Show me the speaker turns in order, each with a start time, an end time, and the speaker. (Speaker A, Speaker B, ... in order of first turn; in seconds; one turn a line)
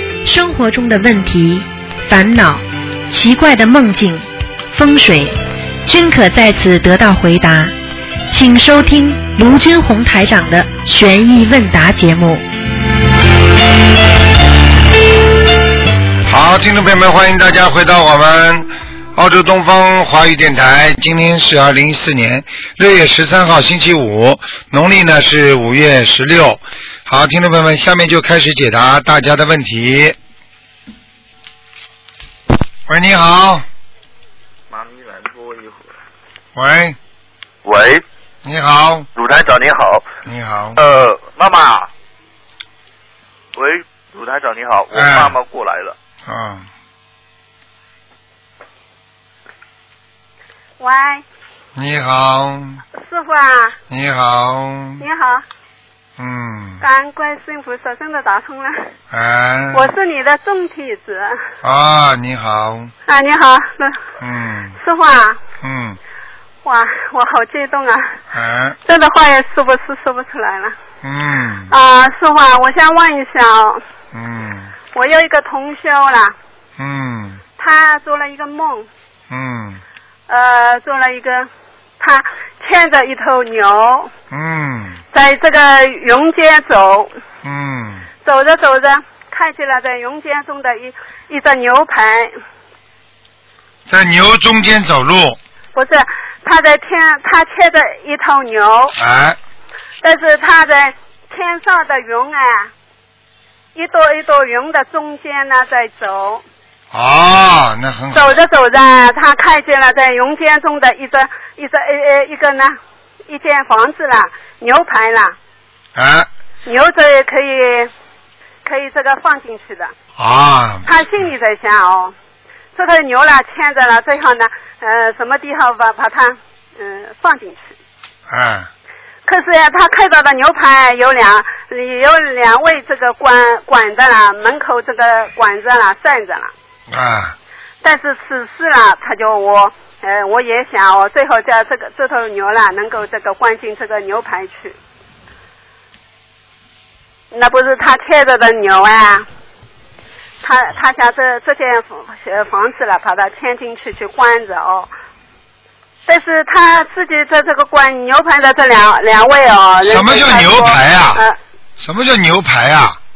Speaker A: 0.2-7.7
Speaker A: 8.3-12.4
Speaker B: 16.2-30.1
Speaker B: 32.9-33.6
Speaker C: 34.7-35.9
Speaker B: 36.5-37.0
Speaker C: 37.6-38.0
Speaker B: 38.4-39.1
Speaker C: 39.1-40.0
Speaker B: 40.2-40.8
Speaker C: 40.8-41.9
Speaker C: 43.5-45.9
Speaker B: 44.9-45.4
Speaker B: 46.2-46.7
Speaker D: 50.8-51.2
Speaker B: 51.8-52.8
Speaker D: 53.0-53.7
Speaker B: 53.9-55.0
Speaker D: 55.0-55.4
Speaker B: 56.2-56.8
Speaker D: 56.8-58.9
Speaker B: 59.1-59.9
Speaker D: 59.7-61.4
Speaker B: 61.6-62.9
Speaker D: 63.1-64.0
Speaker B: 64.2-64.8
Speaker D: 64.8-65.4
Speaker B: 65.6-66.0
Speaker D: 66.6-68.1
Speaker B: 68.3-68.8
Speaker D: 68.8-70.7
Speaker B: 71.0-71.7
Speaker D: 71.7-73.8
Speaker B: 74.1-74.7
Speaker D: 74.9-76.3
Speaker B: 76.8-77.4
Speaker D: 77.6-78.9
Speaker B: 79.3-79.8
Speaker D: 80.3-84.1
Speaker B: 84.3-85.0
Speaker D: 85.1-87.1
Speaker B: 87.4-88.0
Speaker D: 88.2-92.3
Speaker B: 93.9-95.4
Speaker D: 95.7-98.9
Speaker B: 99.0-99.4
Speaker D: 100.0-102.7
Speaker D: 103.8-106.4
Speaker B: 106.9-108.3
Speaker D: 108.1-112.8
Speaker D: 113.3-115.3
Speaker B: 116.0-116.3
Speaker D: 116.7-117.9
Speaker D: 118.6-119.9
Speaker B: 120.2-120.9
Speaker D: 120.8-122.1
Speaker D: 122.7-127.6
Speaker B: 128.3-128.7
Speaker D: 129.2-136.5
Speaker B: 136.9-137.3
Speaker D: 137.8-144.8
Speaker D: 147.3-149.3
Speaker D: 150.4-154.9
Speaker D: 156.1-161.3
Speaker B: 159.8-161.2
Speaker B: 161.8-163.0